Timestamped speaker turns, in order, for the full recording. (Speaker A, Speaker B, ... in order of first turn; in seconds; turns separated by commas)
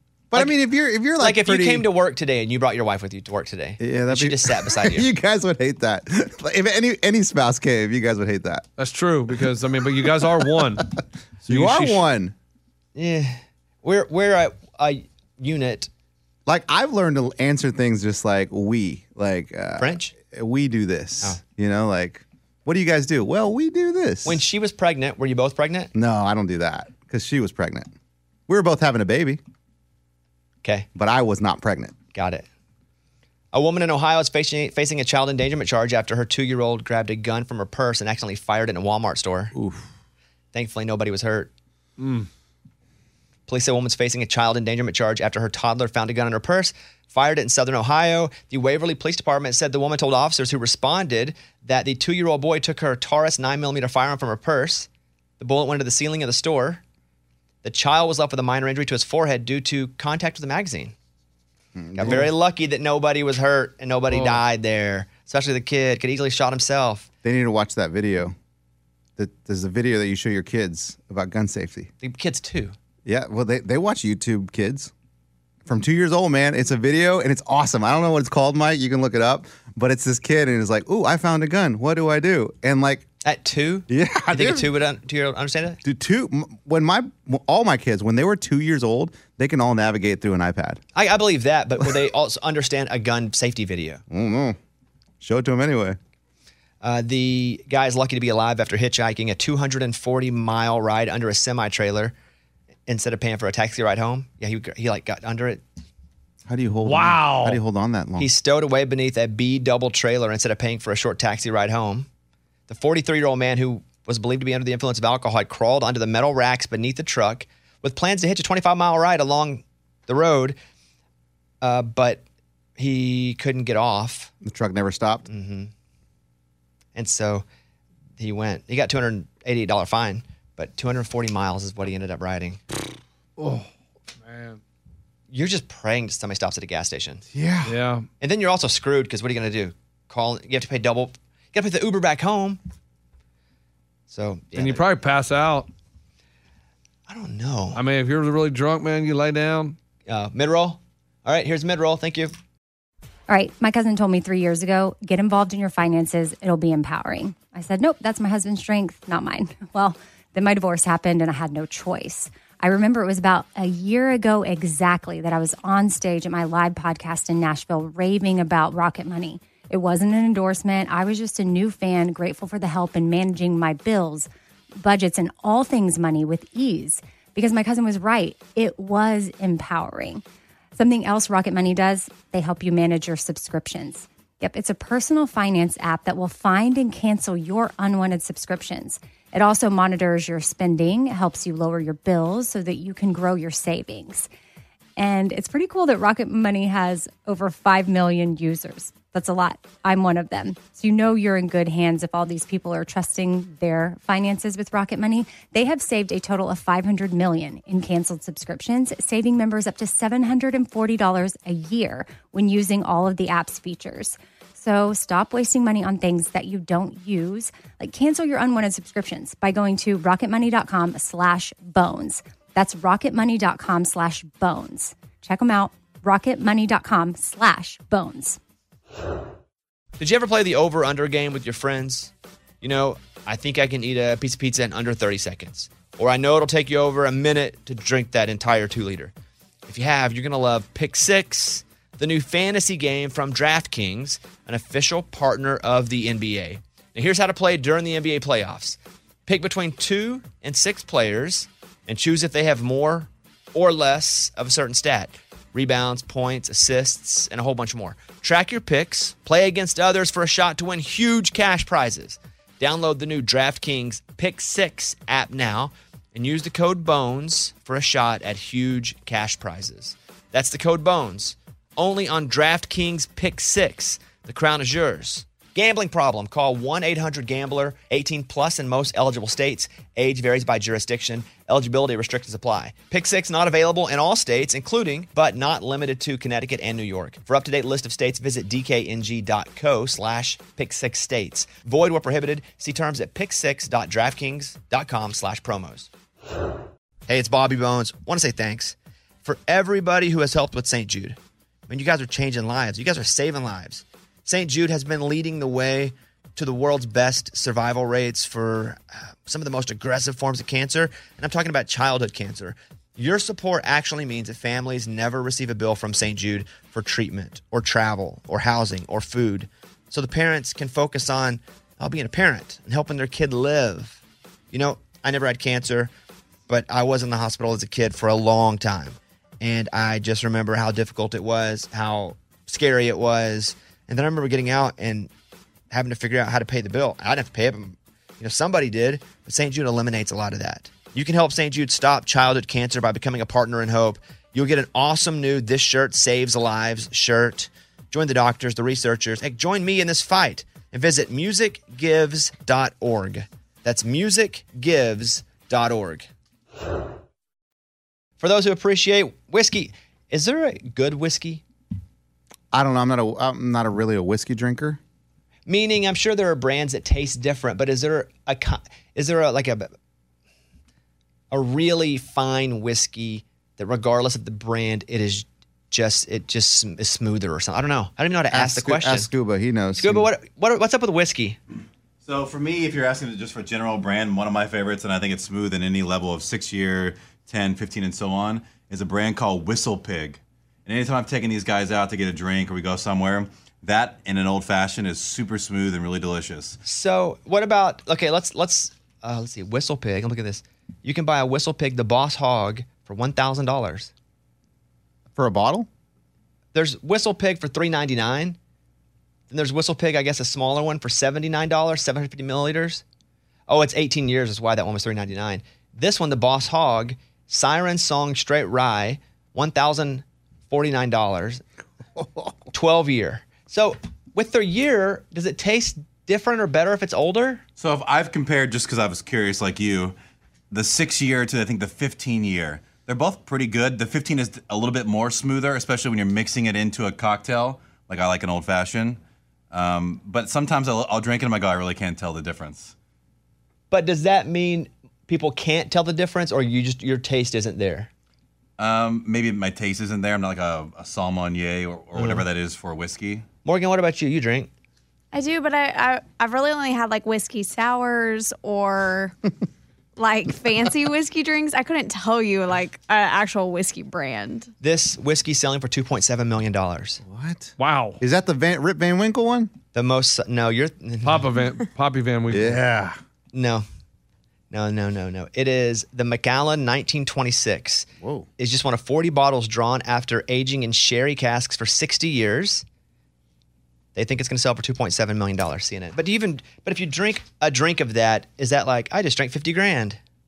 Speaker A: 0.3-1.9, Speaker B: 1.2-5.1, Speaker A: 3.8-8.6, Speaker C: 8.8-10.9, Speaker A: 10.0-10.8, Speaker C: 11.4-12.0, Speaker A: 11.4-12.3, Speaker B: 12.9-15.9, Speaker A: 16.4-24.4, Speaker B: 19.8-20.1, Speaker B: 24.2-25.9, Speaker A: 25.9-27.9, Speaker A: 28.5-29.4, Speaker A: 30.9-31.9, Speaker B: 32.1-32.5, Speaker B: 33.5-39.5, Speaker A: 39.5-39.9, Speaker B: 40.5-41.5, Speaker C: 42.0-42.3, Speaker B: 43.5-54.9, Speaker B: 55.4-56.8, Speaker B: 57.6-60.9, Speaker A: 61.8-62.3, Speaker B: 61.9-67.1, Speaker C: 64.1-64.4, Speaker A: 67.2-68.3, Speaker A: 69.2-71.9, Speaker B: 72.0-72.8, Speaker A: 73.0-74.9, Speaker A: 75.7-83.0, Speaker B: 83.2-85.8, Speaker A: 83.9-84.7, Speaker A: 85.8-90.8, Speaker B: 90.9-94.0, Speaker A: 94.1-94.6, Speaker A: 95.2-96.0, Speaker B: 96.8-102.1, Speaker B: 102.9-105.6, Speaker A: 106.5-108.3, Speaker C: 106.8-107.6, Speaker B: 108.2-112.1, Speaker B: 112.7-120.6, Speaker B: 121.6-122.2, Speaker B: 122.8-124.3, Speaker A: 124.4-125.2, Speaker B: 125.3-125.7, Speaker B: 126.9-127.4, Speaker B: 128.2-132.6, Speaker C: 133.4-133.7, Speaker C: 134.2-134.6, Speaker B: 135.3-137.2, Speaker A: 137.3-137.8, Speaker C: 137.6-138.1, Speaker B: 138.2-142.6, Speaker B: 144.1-144.8, Speaker C: 144.5-145.7, Speaker B: 147.1-147.8, Speaker C: 147.7-149.8, Speaker B: 150.1-152.3, Speaker D: 153.3-180.2, Speaker D: 180.8-194.3, Speaker D: 194.9-228.4, Speaker B: 230.0-239.1, Speaker B: 239.7-295.9, Speaker B: 297.1-301.2, Speaker B: 301.7-324.0, Speaker B: 324.5-325.9, Speaker B: 326.5-335.1, Speaker B: 335.7-356.1, Speaker B: 358.2-361.4, Speaker A: 362.5-364.8, Speaker B: 365.5-369.7, Speaker B: 371.3-379.1, Speaker A: 378.3-380.1, Speaker B: 379.8-381.4, Speaker E: 382.0-396.6, Speaker B: 396.6-403.9, Speaker A: 405.1-405.7, Speaker B: 406.5-408.4, Speaker B: 409.3-412.8, Speaker B: 413.5-421.4, Speaker A: 421.9-422.5, Speaker B: 422.5-427.4, Speaker E: 427.6-430.0, Speaker E: 430.5-439.0, Speaker E: 439.5-442.7, Speaker B: 443.7-447.9, Speaker E: 448.6-453.2, Speaker B: 452.0-452.2, Speaker B: 453.4-454.5, Speaker F: 455.1-459.1, Speaker F: 460.0-464.5, Speaker B: 464.6-467.0, Speaker A: 467.0-469.5, Speaker C: 467.6-468.0, Speaker B: 469.7-471.3, Speaker C: 471.0-472.6, Speaker A: 472.3-473.0, Speaker B: 473.3-473.6, Speaker B: 474.5-477.9, Speaker A: 478.0-478.3, Speaker B: 478.4-482.6, Speaker B: 483.9-490.0